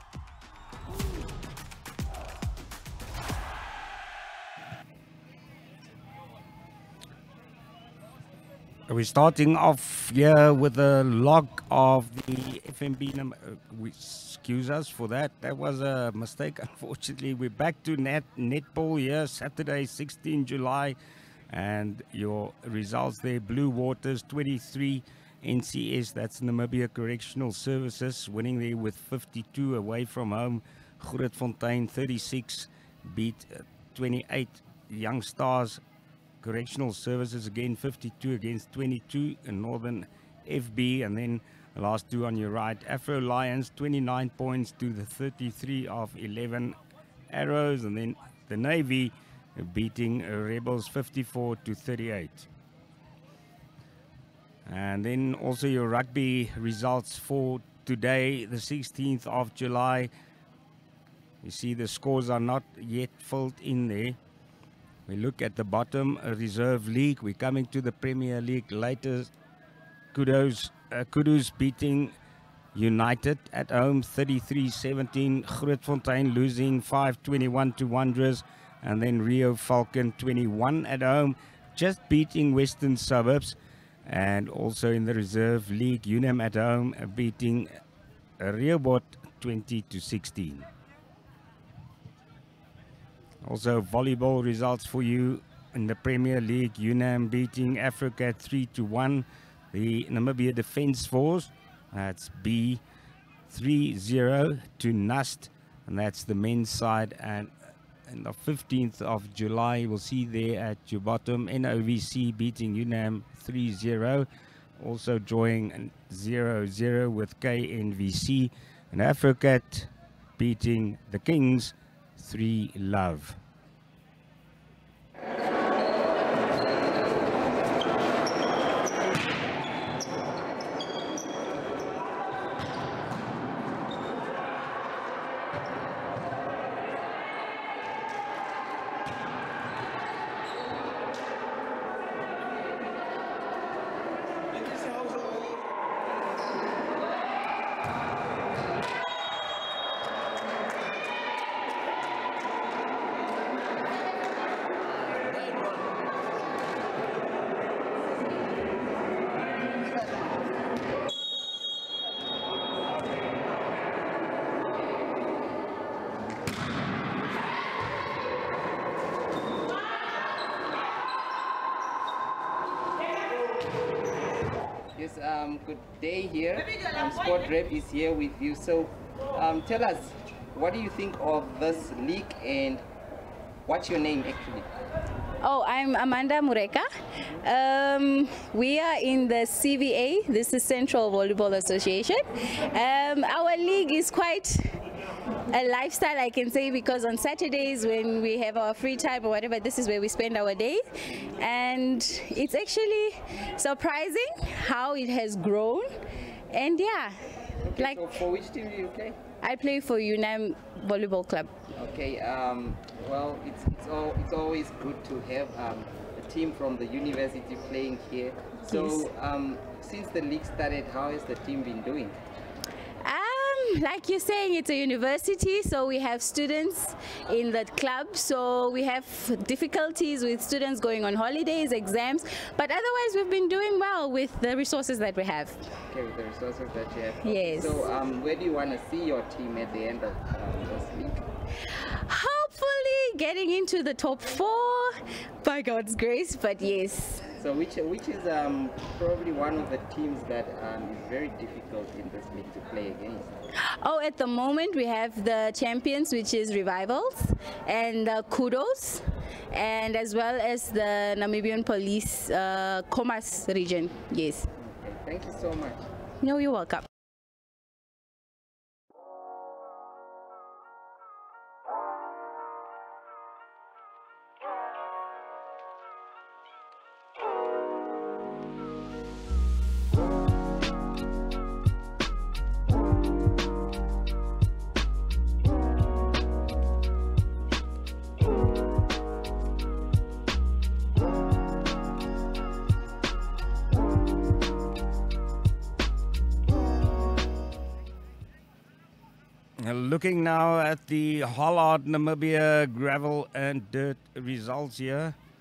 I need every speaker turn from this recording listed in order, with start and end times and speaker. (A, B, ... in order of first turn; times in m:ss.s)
0:08.9-0:21.0 A
0:21.5-0:35.8 A
0:36.4-0:46.8 A
0:47.3-0:52.5 A
0:54.6-1:00.1 A
1:01.4-1:04.2 A
1:05.1-1:09.3 A
1:10.1-1:12.1 A
1:12.7-1:27.7 A
1:28.4-1:30.6 A
1:33.4-1:42.8 A
1:43.5-1:47.5 A
1:48.1-1:54.3 A
1:54.8-2:03.4 A
2:54.9-3:02.8 B
3:03.6-3:04.7 B
3:05.4-3:14.8 C
3:15.5-3:25.9 C
3:26.5-3:28.0 C
3:27.6-3:29.2 B
3:29.4-3:31.5 C
3:31.8-3:42.2 B
3:38.7-3:39.0 C
3:43.0-3:55.6 C
3:55.9-4:01.2 B
3:57.2-3:57.8 C
4:01.7-4:07.3 C
4:07.4-4:13.4 B
4:13.6-4:24.5 C
4:24.6-4:25.9 B
4:26.2-4:26.8 C
4:59.6-5:05.2 A